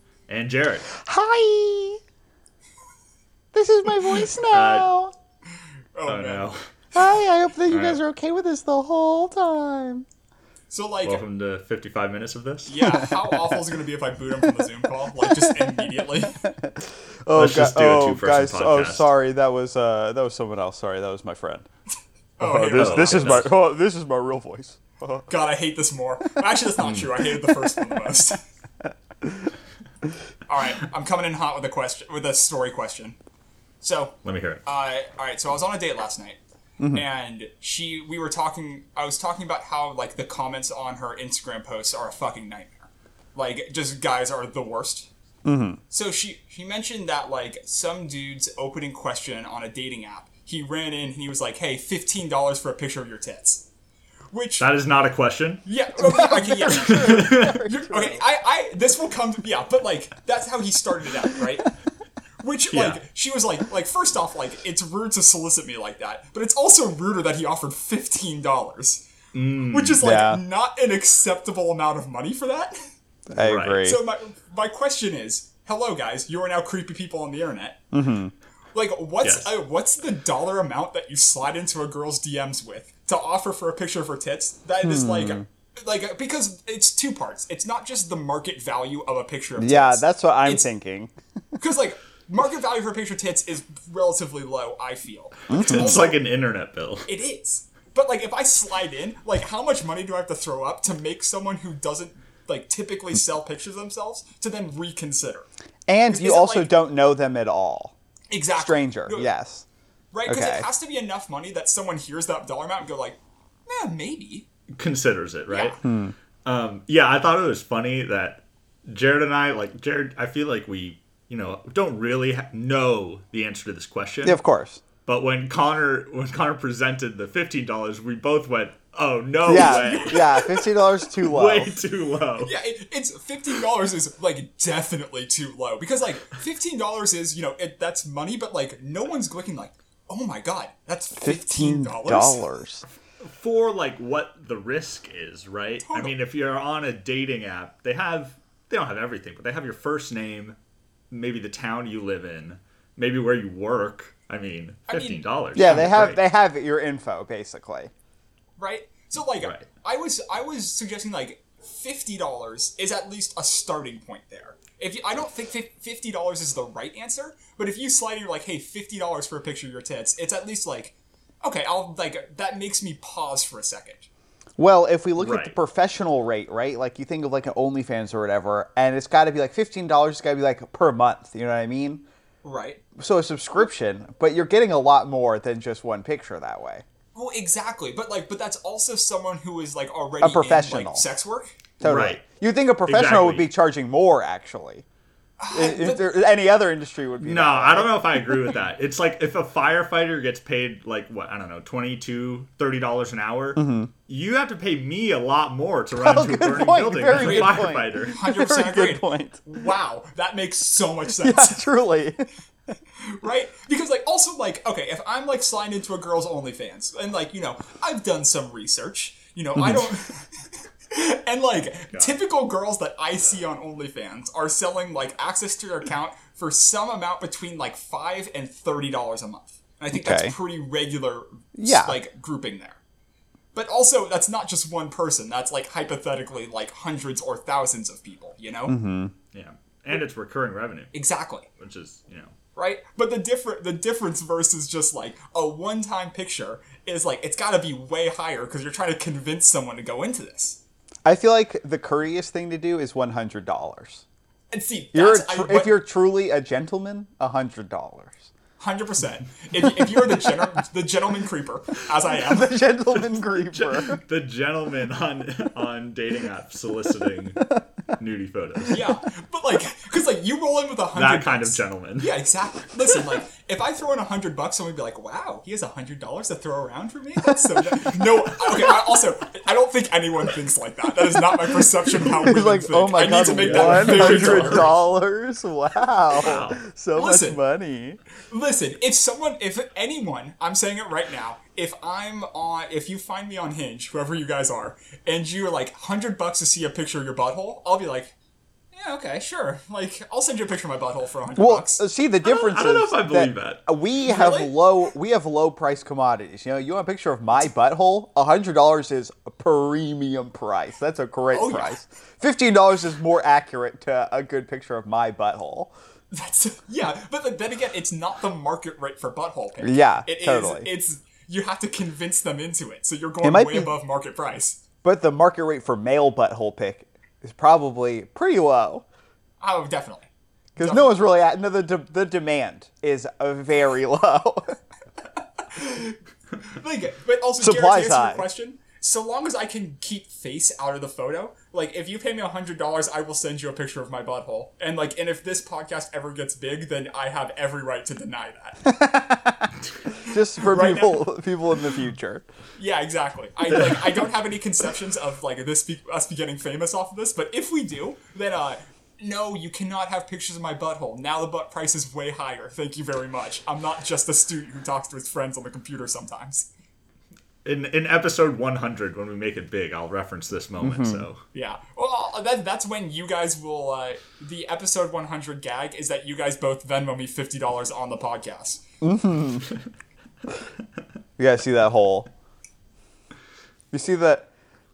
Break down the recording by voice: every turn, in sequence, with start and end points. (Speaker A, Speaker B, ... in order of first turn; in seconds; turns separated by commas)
Speaker A: 0.3-0.9, Speaker B: 0.9-2.0, Speaker B: 3.5-5.1, Speaker A: 4.5-4.9, Speaker C: 5.9-6.5, Speaker A: 6.1-6.7, Speaker B: 6.9-10.1, Speaker A: 7.7-8.0, Speaker C: 10.7-11.2, Speaker A: 11.0-12.8, Speaker C: 12.7-16.4, Speaker B: 12.8-13.6, Speaker B: 14.4-21.7, Speaker A: 17.3-19.1, Speaker C: 22.4-23.5, Speaker B: 22.4-25.3, Speaker A: 22.7-23.5, Speaker C: 25.3-28.4, Speaker A: 26.8-27.1, Speaker B: 27.4-28.1, Speaker B: 28.9-29.5, Speaker C: 30.5-33.2, Speaker C: 33.8-36.4, Speaker A: 34.2-34.6, Speaker C: 36.9-45.1, Speaker B: 45.5-45.8, Speaker C: 45.9-53.7, Speaker C: 54.3-54.7, Speaker A: 54.6-57.7, Speaker C: 55.6-61.7, Speaker B: 56.0-58.2, Speaker C: 62.4-69.0, Speaker A: 62.7-63.0, Speaker A: 69.3-70.0, Speaker C: 69.7-72.9, Speaker B: 70.0-70.4, Speaker B: 73.3-74.0, Speaker A: 73.4-73.9, Speaker C: 73.8-77.8, Speaker B: 77.9-78.3, Speaker C: 78.7-90.7, Speaker A: 79.2-79.5, Speaker B: 84.8-85.5, Speaker B: 89.6-91.1, Speaker C: 91.6-96.2, Speaker B: 95.5-96.0, Speaker A: 95.5-97.1, Speaker C: 97.1-105.5, Speaker B: 105.9-108.0, Speaker C: 106.1-106.7, Speaker C: 108.3-109.3, Speaker B: 108.5-109.7, Speaker C: 110.1-114.5, Speaker B: 110.3-110.7, Speaker A: 114.8-115.8, Speaker C: 115.5-115.8, Speaker B: 115.8-116.2, Speaker A: 116.5-124.4, Speaker B: 124.2-124.8, Speaker A: 125.0-130.4, Speaker C: 129.5-130.8, Speaker B: 129.5-131.7, Speaker A: 131.2-132.5, Speaker C: 132.4-142.4, Speaker B: 141.2-142.8, Speaker A: 143.2-150.6, Speaker C: 145.8-146.2, Speaker A: 151.1-156.2, Speaker C: 154.9-155.9, Speaker B: 155.6-157.9, Speaker C: 158.6-174.1, Speaker A: 159.4-159.7, Speaker B: 174.6-182.1, Speaker A: 175.2-175.6, Speaker C: 182.4-182.8, Speaker B: 183.0-186.8, Speaker C: 187.2-191.6, Speaker B: 190.2-191.1, Speaker B: 191.8-194.8, Speaker A: 191.8-192.2, Speaker A: 192.9-193.5, Speaker C: 195.4-196.1, Speaker B: 195.5-198.5, Speaker A: 197.2-208.2, Speaker B: 203.6-203.9, Speaker B: 206.0-209.4, Speaker C: 207.1-211.7, Speaker B: 211.2-212.3, Speaker C: 213.0-232.8, Speaker A: 221.9-222.2, Speaker B: 229.9-230.3, Speaker B: 231.6-232.0, Speaker C: 233.5-238.8, Speaker B: 238.7-239.1, Speaker A: 239.3-240.9, Speaker C: 240.9-241.5, Speaker A: 241.6-242.3, Speaker C: 242.6-250.6, Speaker B: 251.1-254.1, Speaker C: 254.5-255.8, Speaker B: 254.9-258.3, Speaker C: 258.6-262.6, Speaker B: 259.6-260.5, Speaker B: 262.1-264.0, Speaker A: 263.0-268.8, Speaker C: 268.7-284.7, Speaker A: 270.9-272.1, Speaker B: 277.4-279.0, Speaker B: 281.0-288.0, Speaker A: 283.5-284.7, Speaker A: 286.2-286.6, Speaker C: 286.9-287.4, Speaker C: 288.3-298.1, Speaker C: 298.7-301.8, Speaker B: 301.4-315.7, Speaker A: 302.2-303.6, Speaker C: 304.1-304.6, Speaker C: 311.3-311.8, Speaker C: 316.1-324.6, Speaker B: 319.6-320.7, Speaker B: 323.2-323.7, Speaker B: 324.8-328.9, Speaker C: 329.4-330.9, Speaker B: 330.6-334.6, Speaker C: 335.4-348.8, Speaker B: 337.4-338.3, Speaker B: 348.6-352.2, Speaker C: 350.1-351.1, Speaker C: 352.6-366.5, Speaker A: 353.5-353.8, Speaker A: 367.4-371.2, Speaker B: 370.6-371.1, Speaker C: 371.3-378.6, Speaker B: 378.8-379.5, Speaker B: 381.2-382.1, Speaker B: 383.7-384.3